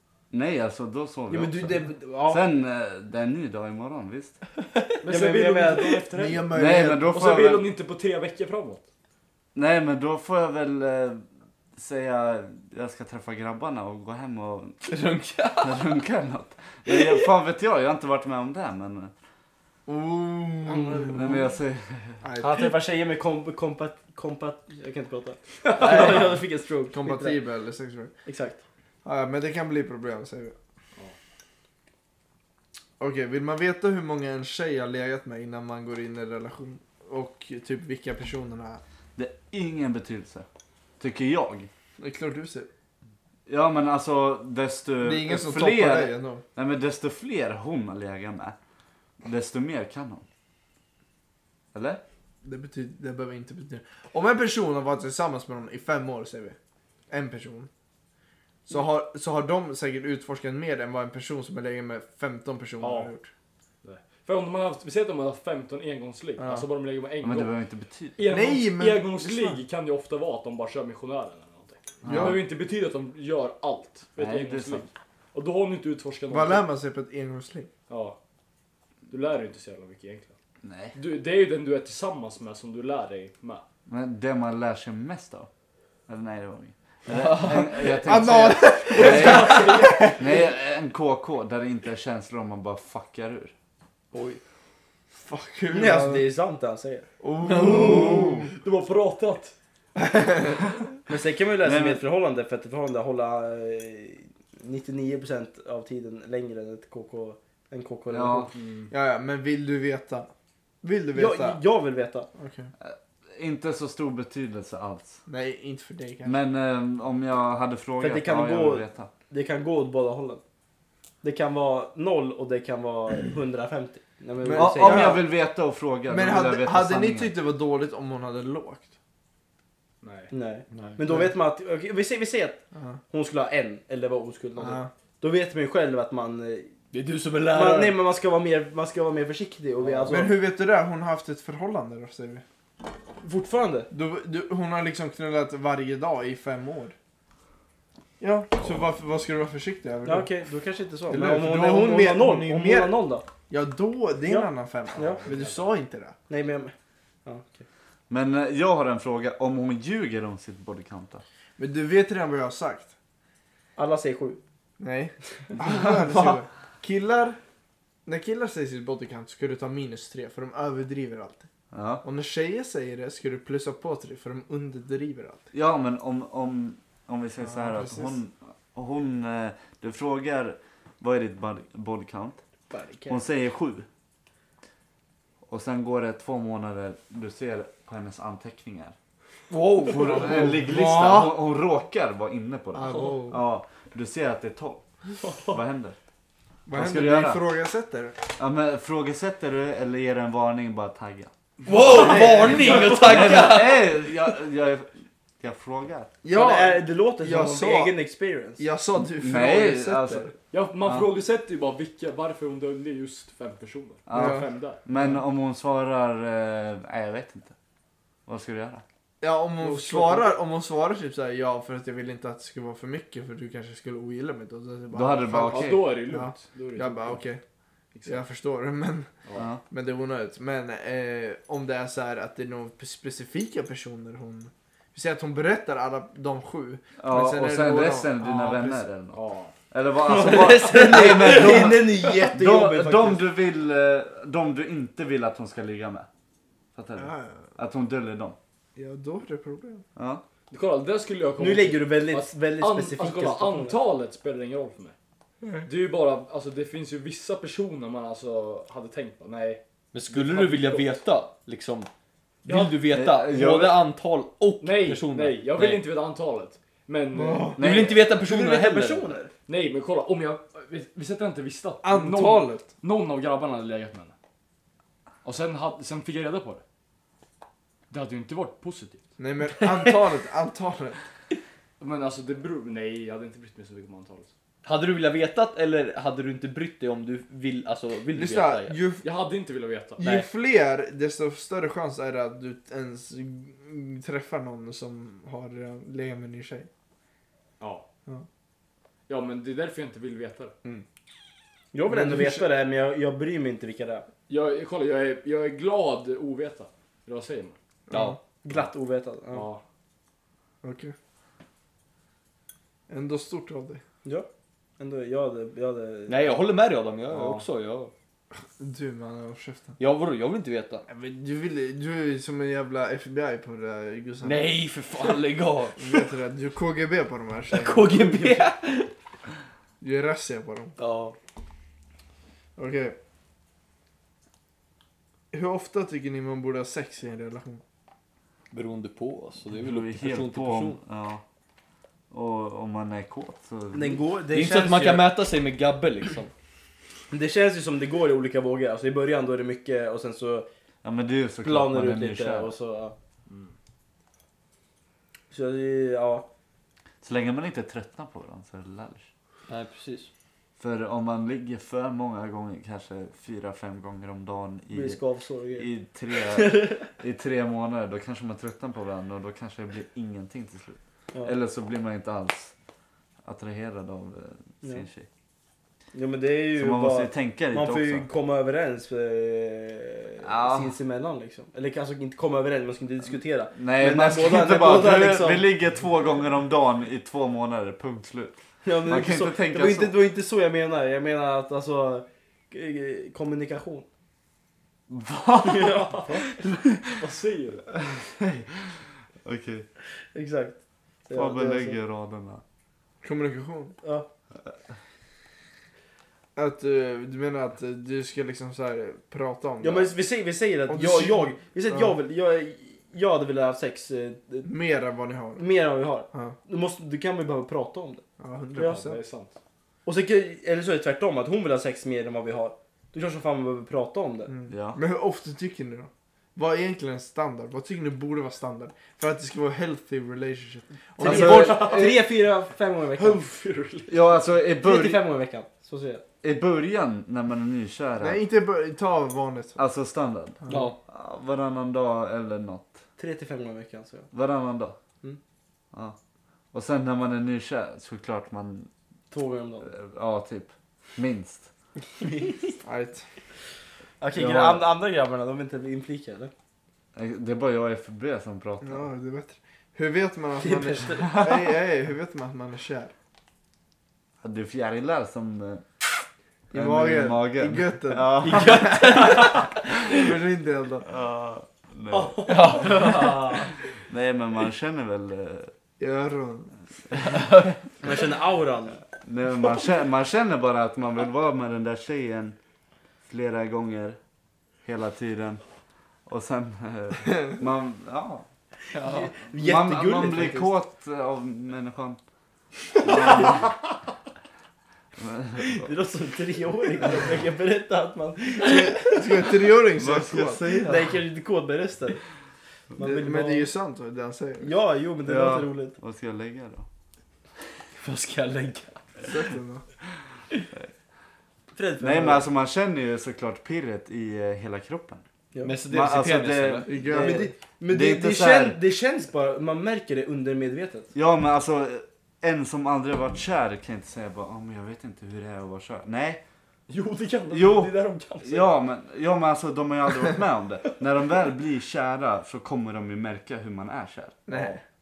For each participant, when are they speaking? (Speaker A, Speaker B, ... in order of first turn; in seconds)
Speaker A: 0.3-4.4, 6.5-7.7, 9.6-14.8, 15.6-19.1, 21.1-22.2, 39.2-40.5, 41.0-41.7, 43.5-48.6, 49.2-50.2, 51.7-52.0, 67.2-68.2, 72.0-72.4, 74.2-74.9, 80.6-81.0, 83.9-85.5, 86.1-93.5, 97.7-98.4, 101.6-102.0, 108.1-108.5, 112.8-115.2, 116.2-119.1, 124.5-127.3, 158.1-161.2, 171.7-172.0, 175.5-182.4, 183.1-183.9, 185.5-189.0, 189.9-194.8, 195.5-196.0, 196.7-197.4, 198.4-201.3, 202.8-206.1, 209.1-210.3, 210.8-211.1, 214.1-217.6, 218.3-218.8, 224.9-225.9, 229.3-229.6, 237.0-246.1, 246.8-248.4, 250.0-250.2, 262.6-263.8, 267.6-268.1, 339.6-341.2, 342.1-344.0, 350.8-352.6, 357.0-359.1, 360.6-365.0, 365.6-372.5, 373.2-375.1, 376.6-378.1, 380.2-380.8, 383.6-390.0, 394.9-395.9, 397.8-399.7, 401.1-402.4, 424.5-424.8, 431.0-431.9, 433.9-435.0, 436.2-438.2, 439.6-442.8, 444.1-444.8, 446.5-448.7, 449.6-451.5, 454.1-454.7, 456.9-458.9, 464.2-468.8, 470.9-473.0, 473.6-475.5, 477.1-477.5, 479.0-482.4, 483.1-484.0, 484.6-485.4, 486.1-488.3, 489.3-492.0, 492.8-493.6, 495.0-495.7, 499.8-501.0, 505.1-506.7, 511.8-515.0, 515.7-516.7, 517.7-518.6, 520.9-526.2, 527.3-534.3
Speaker B: 1.3-2.4, 5.0-6.1, 20.6-21.3, 22.4-27.4, 28.3-28.6, 95.7-97.1, 101.1-108.5, 111.1-112.3, 118.0-120.4, 121.2-125.2, 130.3-136.7, 137.5-140.4, 143.2-143.9, 150.1-153.3, 154.2-155.2, 156.3-156.7, 157.2-157.7, 163.8-164.4, 182.7-183.2, 206.3-208.6, 219.6-220.3, 240.0-243.3, 251.4-253.8, 268.1-269.3, 301.7-304.1, 308.4-309.5, 314.8-316.4, 327.8-328.5, 343.7-345.1, 347.1-350.5, 351.4-353.0, 355.3-356.3, 364.7-366.9, 375.9-385.4, 388.6-393.9, 395.4-396.4, 400.1-401.8, 403.8-404.1, 409.6-414.5, 415.4-418.0, 419.9-424.3, 431.0-433.2, 434.6-436.0, 443.0-444.1, 449.1-449.7, 452.0-452.6, 454.0-456.3, 460.4-461.3, 468.2-469.6, 472.3-473.5, 477.8-478.8, 488.7-490.5, 493.0-493.3, 495.4-499.2, 500.6-502.0, 502.8-503.5, 504.4-505.8, 507.8-508.7, 511.5-512.2, 516.8-520.9
Speaker C: 5.0-6.6, 7.1-8.8, 62.8-63.1, 63.8-67.5, 68.2-76.7, 77.9-78.2, 79.1-80.3, 81.0-83.6, 88.9-90.2, 97.5-99.5, 108.5-108.9, 130.0-130.3, 155.0-155.7, 195.2-195.6, 201.7-202.8, 210.5-214.8, 225.5-227.2, 227.9-228.2, 239.1-239.5, 250.5-254.9, 255.7-261.0, 264.6-267.5, 269.5-274.1, 275.2-276.6, 277.9-279.0, 281.8-284.3, 289.0-290.3, 297.6-297.9, 299.1-300.5, 304.3-307.6, 309.3-309.6, 317.1-317.5, 353.3-353.5, 396.0-397.6, 418.6-419.4, 433.0-434.2, 471.9-472.6, 526.7-528.5
Speaker D: 6.1-7.1, 19.9-21.4, 22.2-22.7, 25.8-28.1, 29.0-30.6, 33.0-38.8, 42.0-42.7, 45.0-46.4, 52.4-56.6, 57.1-57.7, 58.7-63.3, 66.4-66.7, 68.3-69.6, 72.1-72.4, 76.3-77.7, 87.1-90.3, 95.2-96.3, 97.2-98.5, 100.0-100.8, 108.9-110.3, 110.8-111.6, 112.4-112.7, 115.3-116.4, 124.4-125.3, 126.1-128.9, 131.1-131.3, 132.8-133.0, 134.6-134.9, 140.1-142.4, 143.9-146.9, 148.2-150.3, 151.1-152.9, 153.5-156.2, 161.6-162.9, 164.8-167.4, 168.1-171.5, 172.0-175.5, 177.4-178.2, 190.0-191.4, 192.7-193.4, 196.7-198.2, 201.9-203.2, 206.2-208.0, 208.6-210.3, 214.1-215.2, 219.2-227.4, 228.1-229.1, 229.7-238.9, 247.0-247.5, 248.8-249.8, 255.4-255.7, 267.1-267.6, 271.8-272.7, 279.2-281.0, 288.1-289.1, 290.0-296.7, 301.9-302.5, 307.9-308.2, 310.6-310.9, 312.9-313.8, 318.6-319.8, 320.9-324.6, 325.8-328.4, 329.8-330.8, 332.6-333.0, 335.3-337.6, 403.0-403.8, 406.4-409.9, 410.7-411.9, 414.4-415.4, 418.2-419.0, 424.3-432.0, 438.0-439.6, 440.4-440.7, 452.6-453.1, 458.6-462.9, 466.5-470.9, 475.8-476.5, 498.4-500.5, 502.8-504.5, 509.0-509.6, 516.6-517.4, 534.3-534.6
Speaker E: 14.8-15.8, 16.9-17.2, 94.1-94.4, 130.7-131.0, 136.9-138.0, 189.5-190.5, 201.7-203.8, 259.9-261.9, 262.5-265.4, 267.6-269.1, 284.6-288.8, 307.9-308.2, 316.1-317.9, 319.8-320.9, 324.2-326.0, 327.5-328.8, 330.8-331.2, 338.5-340.8, 344.3-346.3, 359.5-360.1, 472.6-473.1, 515.4-516.7